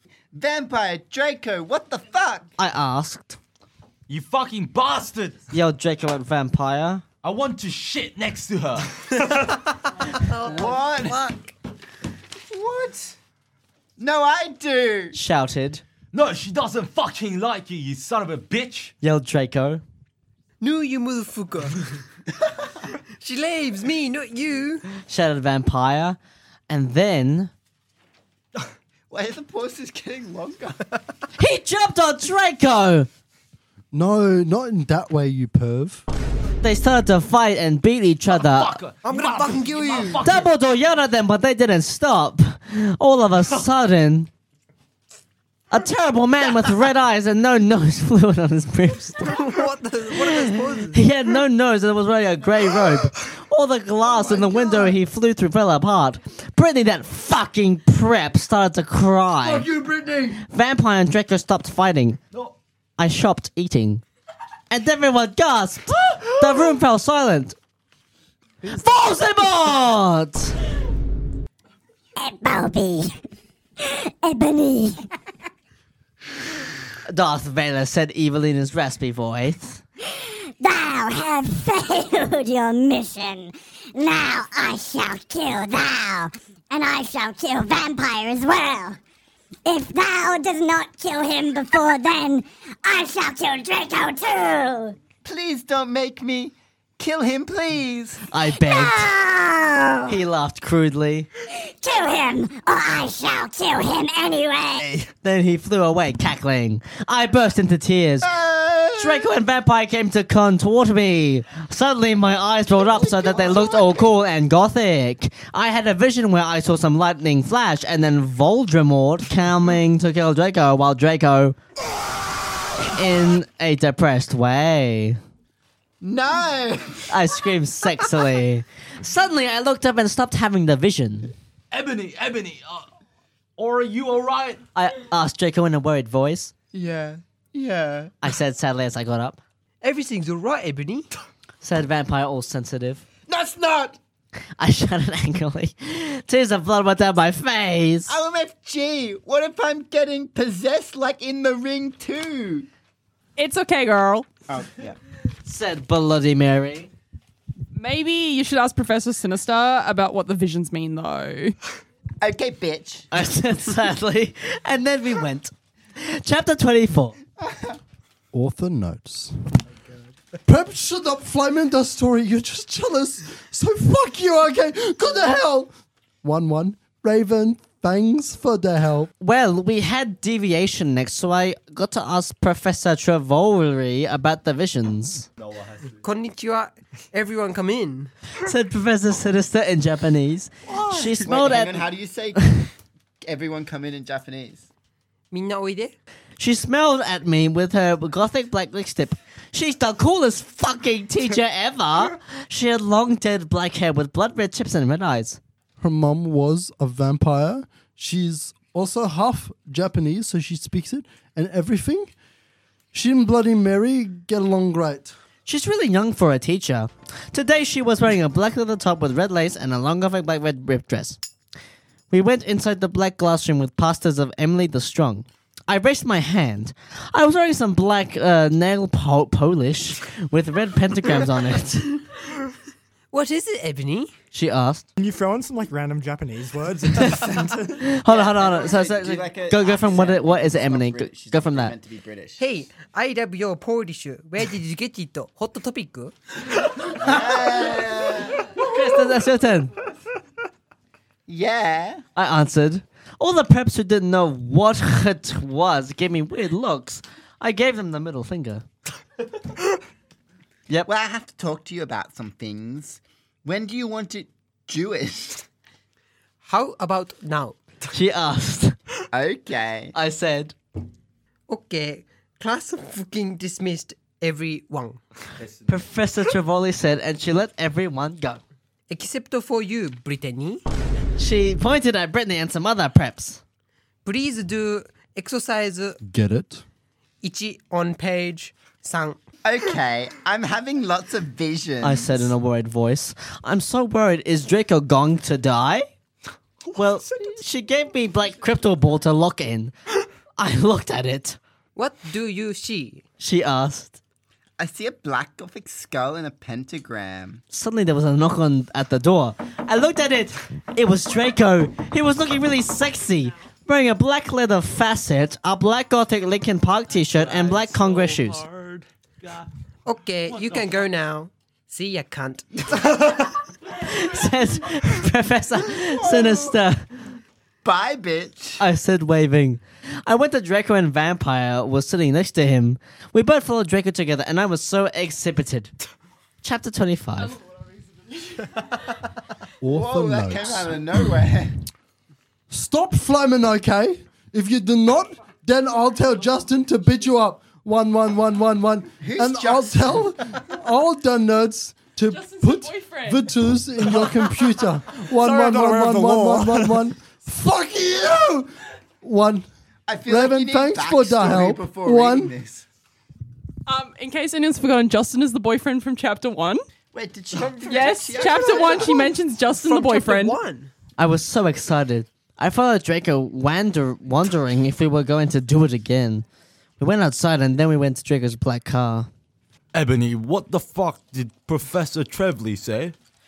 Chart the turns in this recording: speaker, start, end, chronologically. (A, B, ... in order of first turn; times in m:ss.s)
0:00.3-0:02.5 A
0:02.6-0:03.4 B
0:04.1-0:05.4 C
0:05.5-0:07.0 B
0:07.2-0:08.9 C
0:09.3-0:11.5 D
0:10.4-0:11.3 A
0:12.5-0:13.2 A
0:14.0-0:15.2 A
0:15.1-0:15.8 B
0:16.1-0:18.9 C
0:19.0-0:19.8 B
0:20.6-0:21.9 D
0:23.2-0:24.9 D
0:25.0-0:26.2 B
0:26.7-0:27.5 B
0:29.1-0:30.9 A
0:31.4-0:33.1 B
0:33.9-0:36.0 E
0:36.6-0:38.8 B
0:38.3-0:40.5 C
0:39.0-0:40.3 D
0:40.2-0:44.3 B
0:45.7-0:49.4 B
0:49.2-0:51.0 D
0:50.2-0:59.7 B
0:54.4-0:54.8 E
0:59.4-1:00.4 E
1:00.4-1:02.2 B
1:03.0-1:04.0 B
1:04.7-1:07.6 B
1:08.6-1:09.5 E
1:08.7-1:10.6 B
1:12.2-1:13.2 F
1:13.8-1:15.1 F
1:17.1-1:19.8 B
1:20.1-1:29.0 F
1:29.7-1:35.0 F
1:35.2-1:38.2 A
1:38.3-1:39.1 B
1:38.6-1:40.2 F
1:40.1-1:41.3 B
1:41.5-1:44.9 F
1:44.8-1:45.1 A
1:45.2-1:48.4 B
1:48.2-1:49.3 A
1:48.9-2:01.6 B
1:52.7-1:54.1 A
2:02.9-2:05.2 B
2:06.0-2:07.1 A
2:07.1-2:11.3 B
2:11.7-2:12.9 C
2:13.6-2:14.6 C
2:14.8-2:16.5 B
2:16.7-2:18.1 A
2:18.2-2:19.4 B
2:19.8-2:21.1 D
2:21.6-2:23.0 B
2:23.3-2:24.0 A
2:24.6-2:28.1 B
2:28.1-2:32.7 A
2:33.4-2:34.3 G
2:34.5-2:35.0 A
2:35.5-2:36.9 B
2:37.7-2:41.6 G
2:42.2-2:43.1 A
2:43.1-2:47.2 B
2:47.4-2:47.8 A
2:48.3-2:49.5 E
2:50.4-2:55.7 E
2:56.2-2:59.1 E
2:59.2-3:05.3 B
3:05.4-3:06.0 C
3:06.0-3:08.1 D
3:08.4-3:12.6 B
3:10.9-3:12.6 A
3:13.2-3:14.7 A
3:15.3-3:16.0 D
3:16.4-3:25.4 B
3:25.8-3:32.1 E
3:32.9-3:35.1 E
3:35.5-3:41.2 B
3:42.1-3:52.0 B
3:53.1-3:54.1 D
3:54.3-3:54.9 B
3:55.0-3:57.8 H
3:57.8-4:01.7 B
3:58.1-4:02.4 A
4:02.4-4:06.2 D
4:06.9-4:08.5 A
4:08.6-4:09.7 B
4:11.3-4:12.0 A
4:12.2-4:18.6 B
4:20.9-4:25.4 A
4:26.4-4:27.6 D
4:27.9-4:28.8 B
4:29.1-4:29.9 A
4:29.9-4:30.6 B
4:31.5-4:35.0 D
4:35.4-4:35.8 C
4:35.7-4:38.4 B
4:38.9-4:40.6 D
4:41.2-4:43.4 B
4:44.0-4:46.0 D
4:46.0-4:46.6 E
4:47.2-4:49.2 D
4:49.4-4:52.3 A
4:51.8-4:55.9 B
4:56.8-4:59.7 B
5:00.4-5:01.4 B
5:01.8-5:03.0 D
5:03.2-5:04.0 B
5:04.6-5:07.4 A
5:07.5-5:18.4 B
5:17.0-5:19.5 C
5:19.9-5:23.0 D
5:20.3-5:20.9 C
5:23.7-5:26.9 B
5:25.8-5:26.6 A
5:27.6-5:28.6 A
5:28.6-5:35.7 B
5:36.4-5:37.4 B
5:39.6-5:41.0 E
5:39.7-5:41.6 A
5:42.5-5:59.5 E
5:49.0-5:50.1 A
5:52.1-5:53.3 G
5:55.2-5:56.8 H
5:59.9-6:02.6 A
6:00.0-6:02.3 E
6:03.7-6:06.6 G
6:06.9-6:09.1 A
6:07.6-6:10.4 G
6:09.5-6:10.7 D
6:11.0-6:16.2 B
6:16.8-6:19.1 B
6:19.7-6:23.0 C